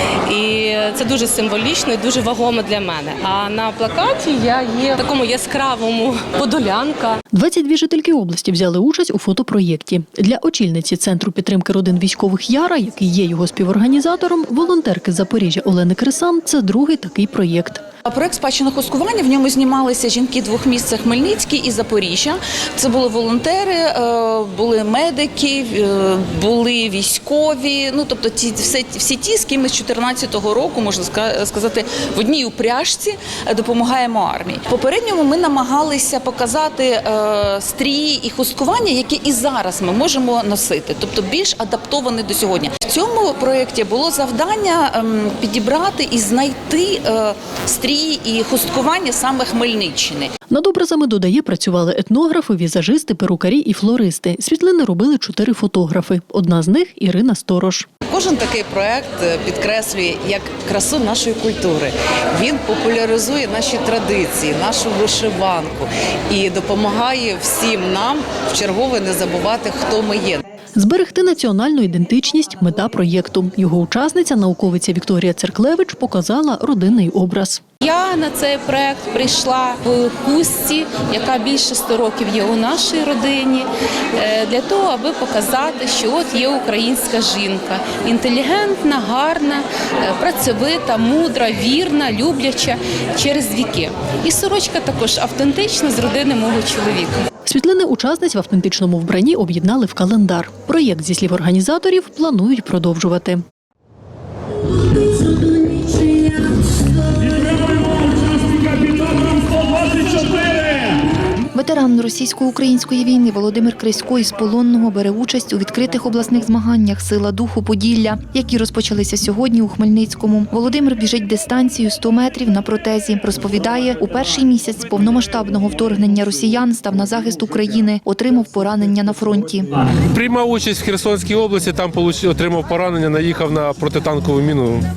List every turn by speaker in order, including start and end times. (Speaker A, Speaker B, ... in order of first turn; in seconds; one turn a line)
Speaker A: 0.3-7.2
Speaker B: 7.3-17.8
Speaker C: 18.1-50.3
Speaker B: 50.5-57.9
Speaker D: 58.1-70.4
Speaker B: 70.8-77.6
Speaker E: 77.8-97.2
Speaker B: 97.5-103.4
Speaker F: 111.5-129.7
Speaker G: 130.1-134.8